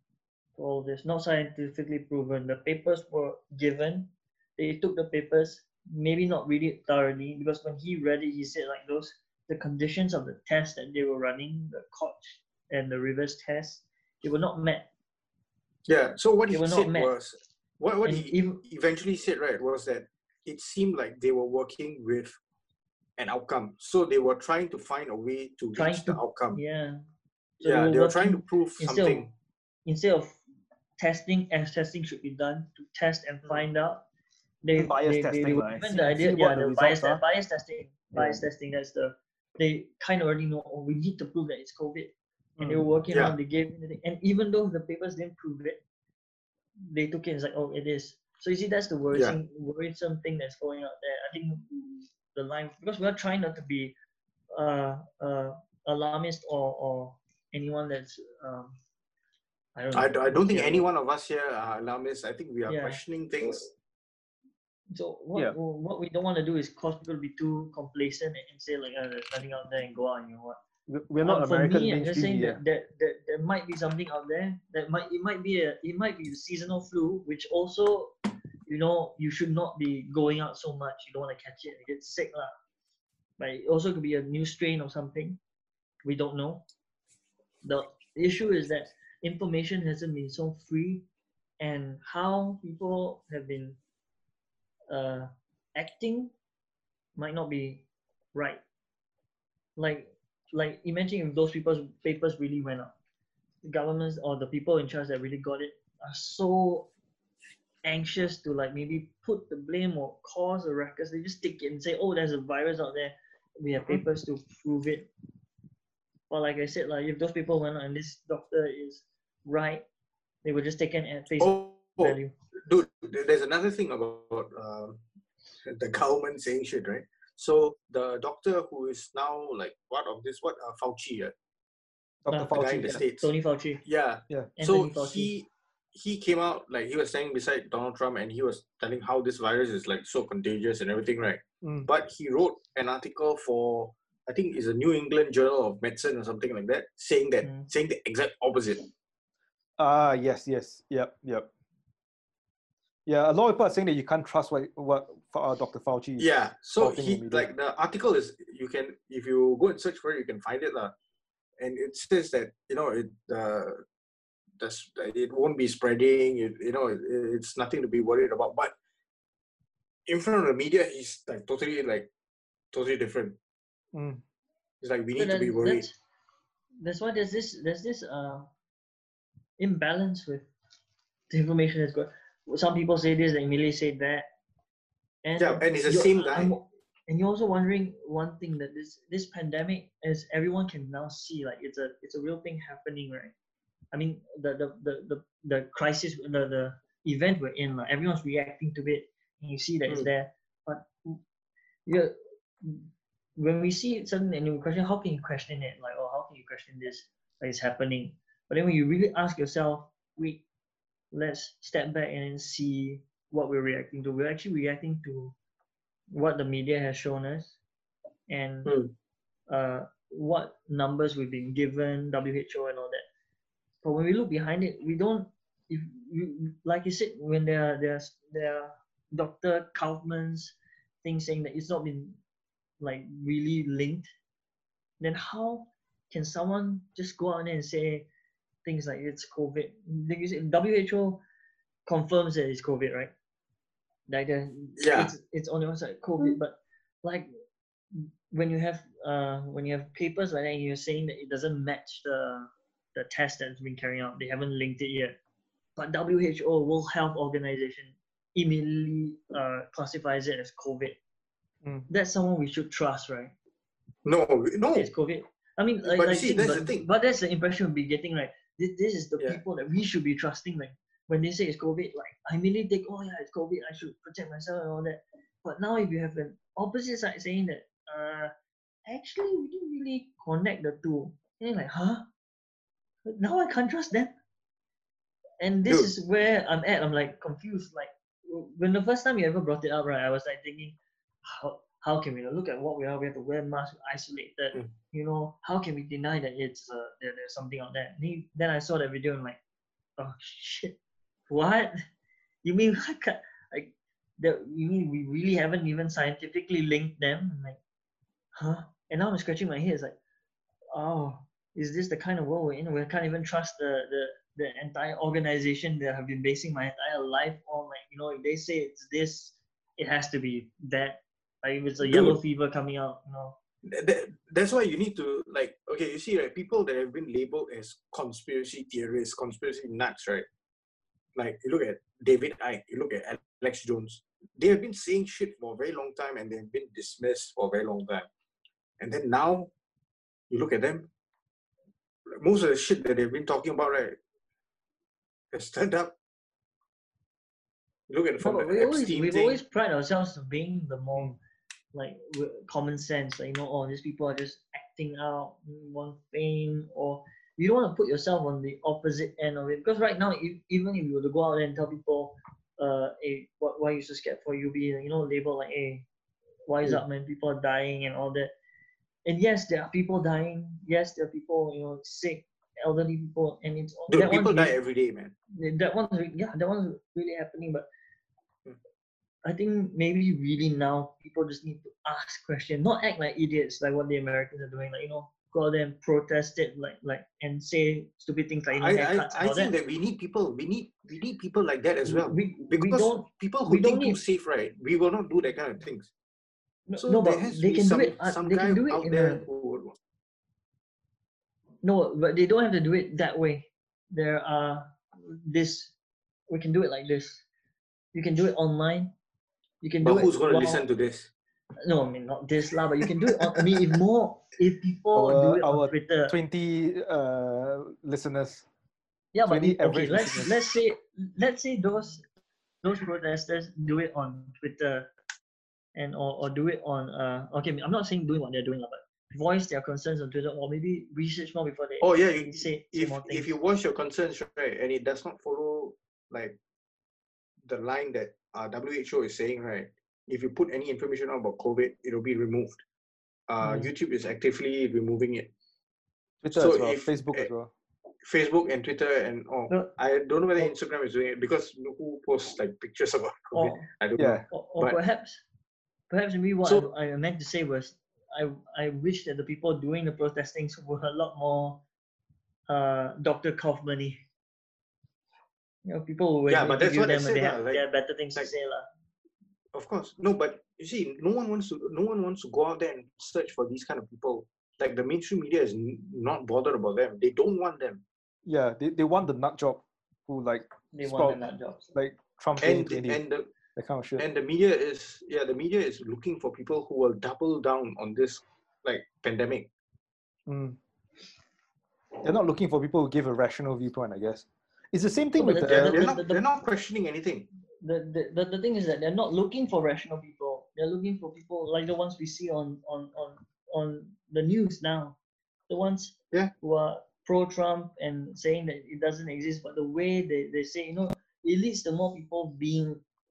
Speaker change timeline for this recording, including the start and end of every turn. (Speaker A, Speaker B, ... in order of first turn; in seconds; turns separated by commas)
Speaker A: 0.6-14.9, Speaker B: 15.8-22.4, Speaker A: 16.5-17.1, Speaker A: 18.0-18.6, Speaker B: 23.2-26.6, Speaker A: 25.7-27.0, Speaker A: 27.6-29.3, Speaker B: 27.6-29.3, Speaker A: 29.9-30.4, Speaker A: 31.0-34.0, Speaker A: 34.6-45.8, Speaker C: 34.7-37.2, Speaker C: 38.1-38.4, Speaker C: 42.6-42.9, Speaker A: 46.9-53.9, Speaker B: 49.1-49.4, Speaker A: 54.5-58.8, Speaker A: 59.8-60.9, Speaker B: 59.9-63.7, Speaker A: 62.7-63.0, Speaker A: 64.9-70.6, Speaker C: 70.9-72.6, Speaker A: 71.2-78.1, Speaker A: 78.7-82.5, Speaker A: 83.4-85.4, Speaker A: 86.0-86.6, Speaker A: 87.6-91.0, Speaker A: 91.6-93.8, Speaker A: 94.9-96.3, Speaker A: 97.2-98.6, Speaker A: 99.8-102.9, Speaker A: 103.6-106.9, Speaker A: 107.8-115.1, Speaker A: 116.3-119.8, Speaker A: 120.4-122.3, Speaker B: 121.4-125.0, Speaker B: 125.7-131.3, Speaker C: 132.2-133.0, Speaker A: 132.3-133.8, Speaker B: 132.5-133.3, Speaker B: 133.8-148.9, Speaker A: 134.6-135.3, Speaker C: 141.6-141.9, Speaker A: 147.4-147.7, Speaker C: 149.8-151.5, Speaker C: 153.1-157.5, Speaker B: 156.2-160.9, Speaker B: 161.6-163.8, Speaker B: 164.6-168.7, Speaker B: 170.1-172.1, Speaker B: 172.7-173.4, Speaker C: 173.9-174.2, Speaker B: 174.8-175.9, Speaker A: 175.2-175.9, Speaker A: 176.8-178.5, Speaker A: 179.6-180.5, Speaker A: 181.3-184.3, Speaker A: 185.2-193.3, Speaker B: 185.4-186.5, Speaker A: 193.9-201.2, Speaker A: 201.8-210.4, Speaker A: 211.1-215.3, Speaker A: 216.1-217.6, Speaker A: 218.3-218.7, Speaker B: 218.6-218.9, Speaker A: 219.5-223.0, Speaker A: 223.8-232.2, Speaker A: 232.8-234.1, Speaker A: 235.0-238.1, Speaker A: 238.6-241.2, Speaker A: 241.8-243.1, Speaker A: 244.1-247.3, Speaker B: 244.8-245.1, Speaker A: 247.9-255.2, Speaker A: 255.8-261.0, Speaker A: 261.9-263.3, Speaker B: 264.0-264.9, Speaker A: 264.7-278.3, Speaker B: 265.8-266.8, Speaker A: 278.9-282.0, Speaker A: 283.1-284.1, Speaker A: 285.4-299.4, Speaker A: 300.0-300.8, Speaker A: 301.3-301.8, Speaker A: 302.4-307.6, Speaker A: 308.3-309.9, Speaker A: 310.7-323.4, Speaker B: 321.8-322.2, Speaker B: 323.6-330.2, Speaker B: 331.1-338.1, Speaker B: 338.8-339.5, Speaker B: 340.3-340.9, Speaker B: 342.2-343.9, Speaker B: 345.3-345.9, Speaker B: 347.9-349.4, Speaker A: 348.2-351.1, Speaker A: 351.7-365.9, Speaker A: 366.5-368.3, Speaker A: 369.1-374.5, Speaker B: 373.9-375.1, Speaker A: 375.3-377.7, Speaker A: 379.2-389.5, Speaker B: 388.5-395.9, Speaker A: 391.9-394.0, Speaker A: 396.7-399.2, Speaker B: 396.8-399.7, Speaker A: 401.6-405.7, Speaker A: 406.3-407.2, Speaker A: 407.9-408.9, Speaker A: 409.6-410.6, Speaker B: 409.8-411.1, Speaker A: 411.6-416.1, Speaker C: 414.9-418.4, Speaker A: 419.1-422.0, Speaker C: 419.3-420.4, Speaker A: 422.6-424.9, Speaker A: 425.7-433.3, Speaker B: 431.8-436.4, Speaker B: 437.4-442.6, Speaker B: 443.3-445.3, Speaker A: 443.4-443.7, Speaker C: 446.2-447.5, Speaker B: 446.3-447.3, Speaker B: 448.0-454.8, Speaker A: 453.3-453.7, Speaker C: 454.0-454.2, Speaker A: 454.3-455.2, Speaker A: 455.9-461.6, Speaker A: 462.5-464.0, Speaker A: 465.6-468.7, Speaker B: 466.3-467.6, Speaker B: 469.5-477.8, Speaker C: 478.2-481.2, Speaker A: 480.7-481.7, Speaker C: 481.7-483.0, Speaker B: 482.4-483.3, Speaker C: 483.6-484.0, Speaker B: 484.0-489.5, Speaker C: 490.3-490.6, Speaker C: 492.0-495.8, Speaker A: 495.2-496.2, Speaker B: 495.5-497.3, Speaker A: 497.6-505.0, Speaker A: 505.5-512.8